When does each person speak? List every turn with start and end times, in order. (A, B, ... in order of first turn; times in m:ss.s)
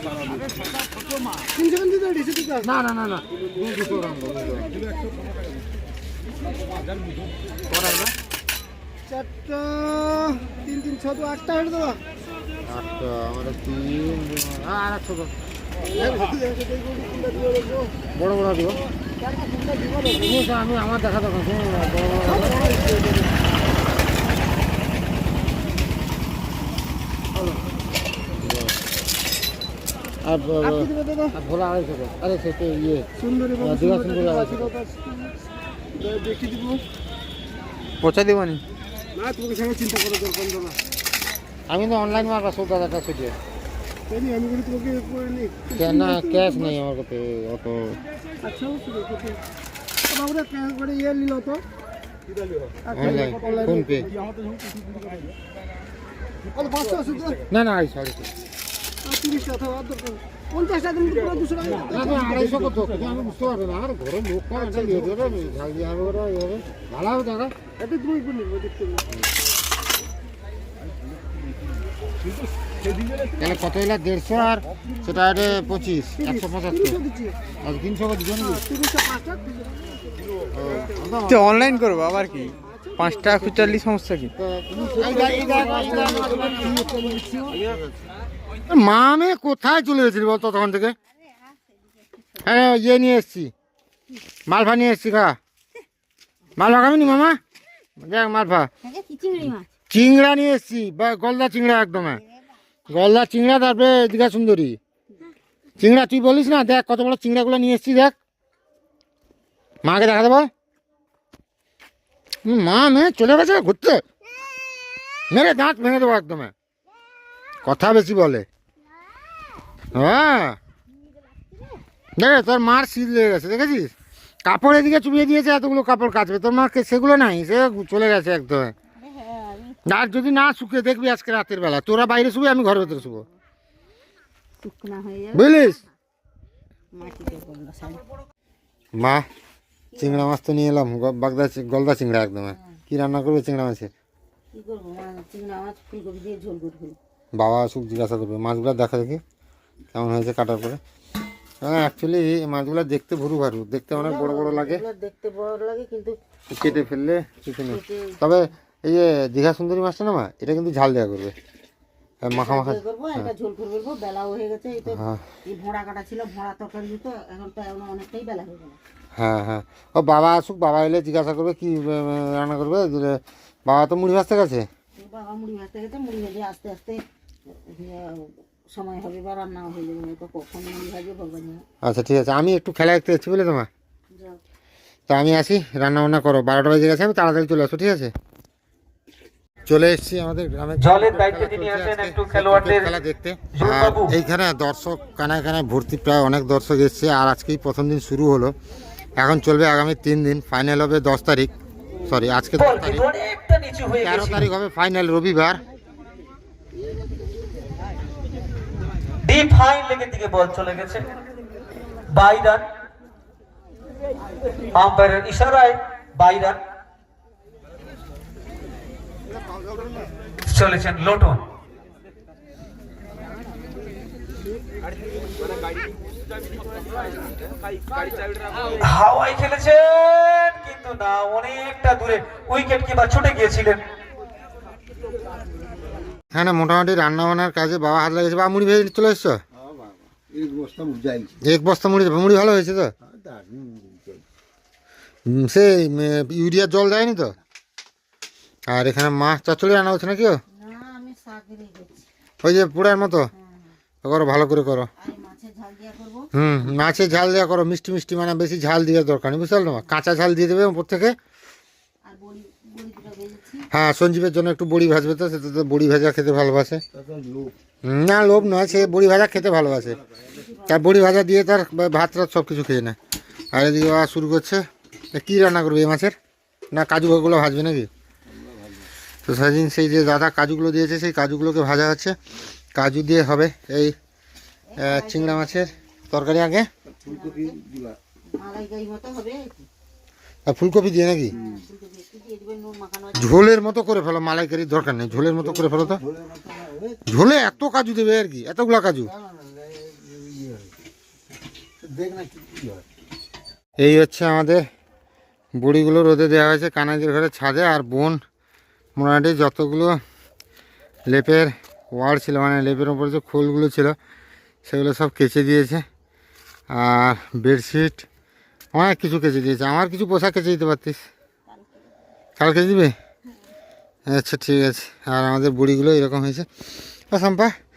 0:01.5-0:02.7 A
0:02.6-0:04.7 B
0:07.7-0:08.1 B
0:09.1-0:12.0 A
0:12.7-0:15.3 B
0:15.8-0:18.0 A
0:18.2-0:18.8 B
0:19.2-0:20.4 A
0:20.1-0:22.6 B
0:22.2-0:23.3 A
0:28.4-0:28.8 B
0:30.2-0:33.1 B
0:30.6-0:31.3 A
0:33.2-0:35.3 A
0:33.6-0:34.7 B
0:36.0-0:36.8 A
0:38.0-0:38.6 C
0:38.2-0:38.6 D
0:39.2-0:40.8 A
0:41.7-0:43.4 B
0:44.1-0:46.8 A
0:45.8-0:48.0 B
0:48.4-0:49.4 A
0:50.1-0:51.6 A
0:52.8-0:55.3 A
0:52.9-0:54.1 B
0:56.5-0:57.4 A
0:57.5-0:58.3 B
0:59.0-1:02.9 A
1:01.9-1:07.5 B
1:04.5-1:05.4 A
1:07.8-1:09.0 A
1:10.8-1:11.8 E
1:12.8-1:13.3 A
1:13.4-1:17.0 B
1:16.2-1:17.4 A
1:17.6-1:18.6 B
1:18.4-1:19.8 A
1:20.5-1:21.5 B
1:21.3-1:24.3 D
1:22.6-1:23.8 A
1:24.4-1:26.8 B
1:24.7-1:27.6 A
1:25.0-1:26.5 E
1:28.7-1:31.0 B
1:31.5-1:32.4 F
1:32.4-1:33.5 B
1:34.5-1:35.4 B
1:36.6-1:37.4 B
1:38.0-1:38.7 B
1:38.8-1:39.7 F
1:39.9-1:42.2 B
1:42.9-1:44.8 B
1:45.8-1:48.2 B
1:49.8-1:50.5 B
1:52.4-1:54.0 B
1:55.3-1:56.5 B
1:57.6-1:58.5 B
1:59.9-2:00.6 B
2:02.2-2:03.9 B
2:04.5-2:08.7 B
2:09.0-2:09.8 F
2:09.9-2:13.3 B
2:12.7-2:13.3 F
2:14.6-2:15.9 F
2:15.3-2:15.8 B
2:16.9-2:18.0 F
2:19.0-2:19.3 B
2:19.9-2:20.3 F
2:20.0-2:23.9 B
2:22.5-2:22.8 F
2:24.5-2:27.0 F
2:27.4-2:29.2 B
2:29.9-2:30.8 B
2:31.6-2:34.8 B
2:33.9-2:36.2 F
2:36.5-2:41.4 B
2:37.7-2:38.2 F
2:42.2-2:43.3 B
2:42.3-2:48.8 F
2:44.9-2:45.2 B
2:49.2-2:54.7 B
2:55.0-3:01.6 F
3:01.8-3:03.7 B
3:04.1-3:04.4 F
3:05.1-3:08.1 B
3:09.7-3:18.6 B
3:10.8-3:12.9 C
3:13.5-3:14.2 C
3:19.2-3:21.5 B
3:22.1-3:23.1 B
3:22.6-3:24.5 C
3:24.0-3:25.6 B
3:29.2-3:31.1 C
3:32.1-3:32.6 C
3:34.7-3:36.6 C
3:40.5-3:41.4 C
3:48.6-3:53.8 C
3:56.3-3:59.4 B
3:59.5-4:01.4 E
4:01.4-4:02.9 B
4:03.0-4:04.2 E
4:05.3-4:07.4 B
4:08.7-4:10.4 B
4:10.5-4:12.1 F
4:12.4-4:13.3 B
4:13.3-4:13.7 F
4:14.0-4:14.9 B
4:15.0-4:16.3 F
4:16.3-4:21.2 B
4:22.0-4:23.7 F
4:23.7-4:26.8 B
4:26.9-4:27.6 E
4:27.8-4:30.0 B
4:29.8-4:30.4 E
4:30.3-4:30.8 F
4:30.7-4:33.0 B
4:33.5-4:36.2 B
4:36.7-4:37.9 B
4:38.2-4:38.9 E
4:39.3-4:42.2 B
4:42.8-4:44.0 B
4:44.7-4:45.6 F
4:44.8-4:46.7 B
4:46.9-4:48.0 E
4:47.1-4:47.5 F
4:48.4-4:49.7 F
4:50.5-4:51.3 B
4:51.3-4:51.6 E
4:51.3-4:53.5 F
4:53.2-4:56.0 B
4:55.1-4:57.6 E
4:57.1-4:59.1 B
4:59.0-5:00.8 E
5:01.8-5:02.9 E
5:03.8-5:04.6 B
5:05.6-5:08.2 B
5:09.0-5:10.0 B
5:11.1-5:14.0 B
5:14.7-5:15.8 B
5:16.7-5:18.1 B
5:18.7-5:21.0 B
5:21.5-5:22.1 F
5:22.4-5:22.9 B
5:24.1-5:26.5 B
5:27.1-5:27.5 B